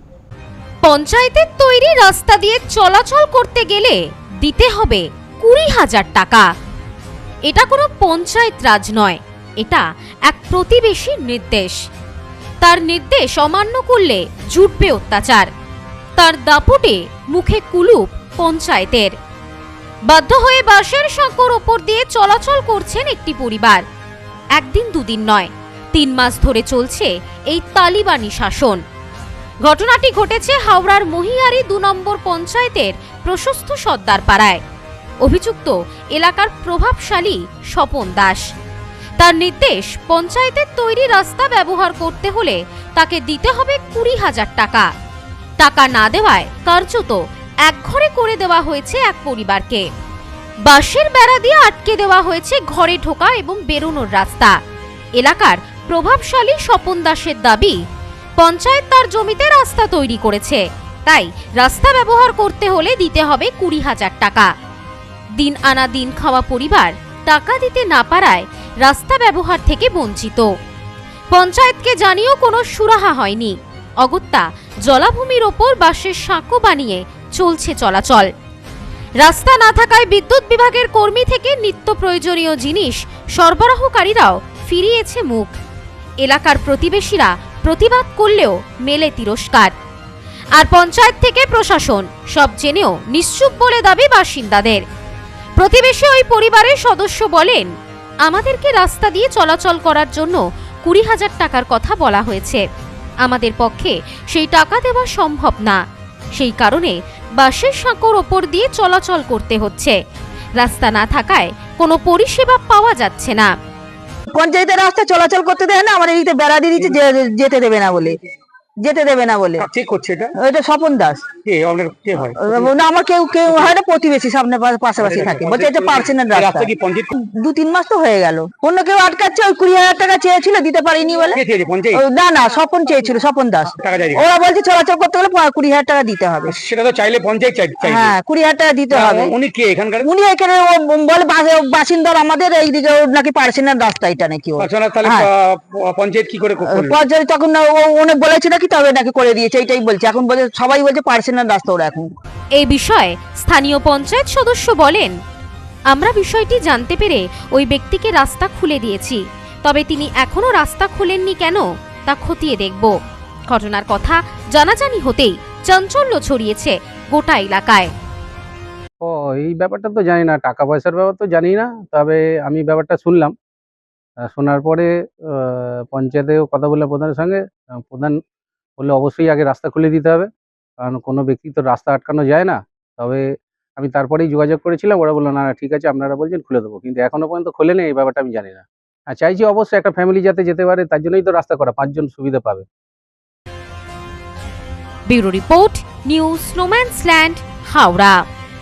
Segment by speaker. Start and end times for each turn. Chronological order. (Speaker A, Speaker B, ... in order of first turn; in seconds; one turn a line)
Speaker A: 0.8-6.5
Speaker A: 7.5-11.7
Speaker A: 12.6-15.5
Speaker A: 16.2-19.1
Speaker A: 20.1-23.8
Speaker A: 24.6-28.8
Speaker A: 29.6-34.6
Speaker A: 35.2-38.4
Speaker A: 39.2-44.9
Speaker A: 45.6-49.9
Speaker A: 50.6-54.5
Speaker A: 55.2-57.8
Speaker A: 58.4-64.5
Speaker A: 65.4-70.5
Speaker A: 71.3-78.3
Speaker A: 79.2-85.5
Speaker A: 86.2-89.7
Speaker A: 90.5-94.8
Speaker A: 95.6-97.7
Speaker A: 98.2-102.6
Speaker A: 103.2-105.8
Speaker A: 106.3-110.0
Speaker A: 110.6-113.5
Speaker B: 114.3-118.2
Speaker B: 118.8-119.7
Speaker C: 119.6-120.3
Speaker B: 120.4-121.2
Speaker C: 121.4-122.7
Speaker B: 122.2-131.4
Speaker C: 123.5-123.7
Speaker C: 125.0-127.1
Speaker C: 131.3-132.0
Speaker B: 132.0-136.6
Speaker C: 133.7-134.2
Speaker C: 136.5-138.2
Speaker B: 137.8-139.3
Speaker C: 138.9-140.1
Speaker B: 140.0-145.3
Speaker C: 144.6-147.0
Speaker B: 146.7-152.1
Speaker A: 152.5-155.1
Speaker A: 155.9-162.9
Speaker A: 163.5-167.9
Speaker D: 169.0-173.3
Speaker D: 174.2-178.2
Speaker D: 178.8-180.3
Speaker D: 180.8-192.6
Speaker A: 195.1-198.2